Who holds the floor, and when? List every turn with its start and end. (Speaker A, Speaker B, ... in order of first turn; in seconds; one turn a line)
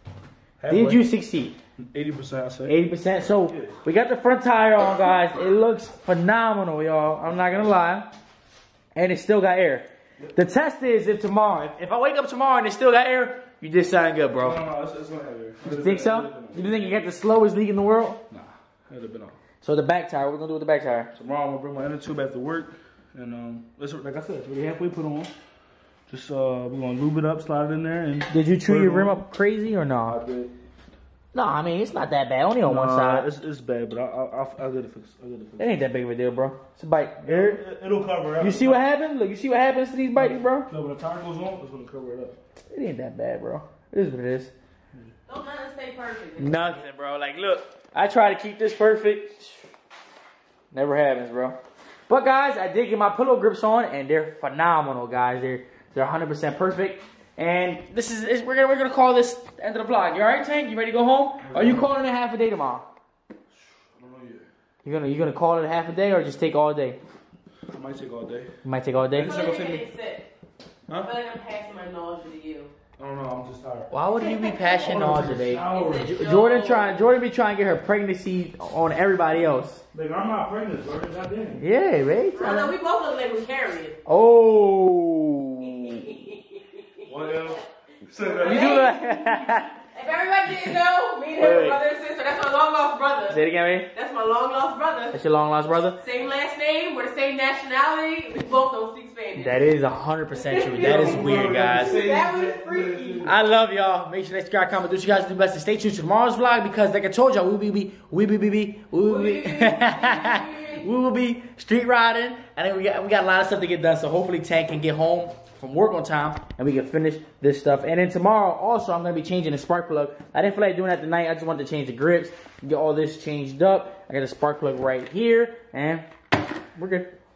Speaker A: 0.6-1.1
Speaker B: 0.7-1.6
Speaker A: 1.8-2.8
Speaker B: 2.7-8.1
Speaker A: 3.4-3.8
Speaker B: 8.9-14.6
Speaker A: 14.3-17.0
Speaker B: 15.6-18.2
Speaker A: 18.3-19.4
Speaker B: 19.6-21.1
Speaker A: 21.2-25.3
Speaker A: 26.1-29.2
Speaker B: 28.3-30.2
Speaker A: 30.0-30.5
Speaker B: 31.3-33.3
Speaker A: 32.6-35.8
Speaker B: 35.6-37.6
Speaker A: 37.2-38.9
Speaker B: 38.4-40.7
Speaker A: 40.1-42.4
Speaker B: 42.7-44.5
Speaker C: 45.3-46.7
Speaker B: 46.4-49.6
Speaker B: 50.7-62.9
Speaker A: 61.4-61.9
Speaker A: 63.5-64.5
Speaker B: 64.8-67.0
Speaker A: 67.7-68.5
Speaker B: 68.6-69.4
Speaker C: 69.1-70.3
Speaker A: 69.2-69.8
Speaker C: 70.9-72.7
Speaker A: 73.0-73.9
Speaker B: 73.9-79.8
Speaker C: 74.2-77.1
Speaker A: 74.8-76.2
Speaker A: 79.9-81.6
Speaker B: 81.6-82.7
Speaker C: 82.4-84.0
Speaker B: 84.1-86.0
Speaker C: 85.6-86.9
Speaker A: 87.1-89.6
Speaker C: 88.4-89.0
Speaker B: 88.4-89.8
Speaker C: 89.8-95.2
Speaker B: 91.4-91.8
Speaker B: 93.3-93.9
Speaker B: 95.1-96.0
Speaker C: 96.0-99.7
Speaker B: 99.4-102.0
Speaker C: 100.3-103.3
Speaker A: 100.8-103.3
Speaker B: 103.2-126.1
Speaker C: 109.0-110.9
Speaker B: 126.8-127.1